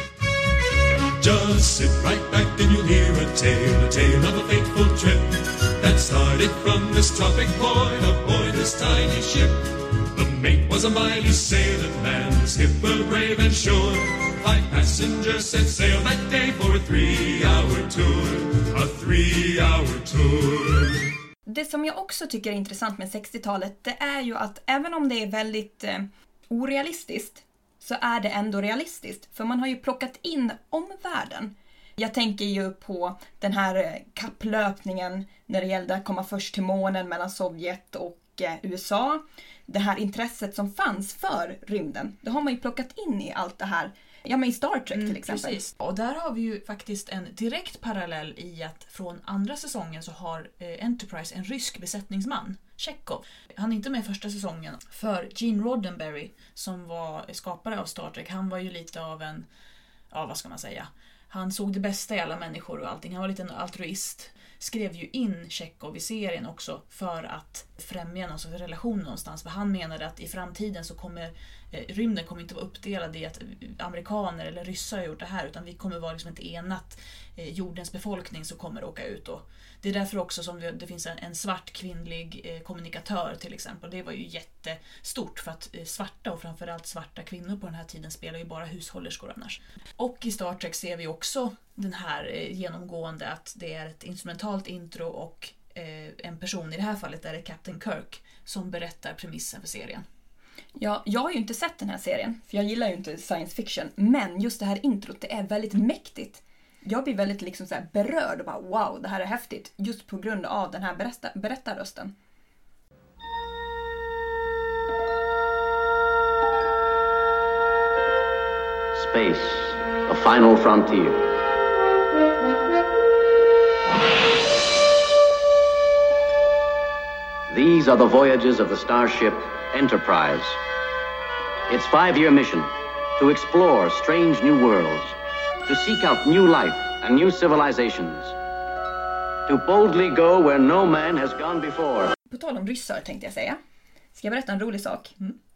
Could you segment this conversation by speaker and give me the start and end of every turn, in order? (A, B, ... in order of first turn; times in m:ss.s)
0:01.2-0:21.1 A
0:21.5-0:45.6 B
0:44.9-0:59.5 C
1:00.1-1:40.0 C
1:40.8-1:52.1 B
1:59.0-2:01.2 D
2:07.5-2:10.6 D
2:11.7-2:18.4 D
2:19.5-2:22.1 D
2:22.3-2:23.6 B
2:24.2-2:25.2 B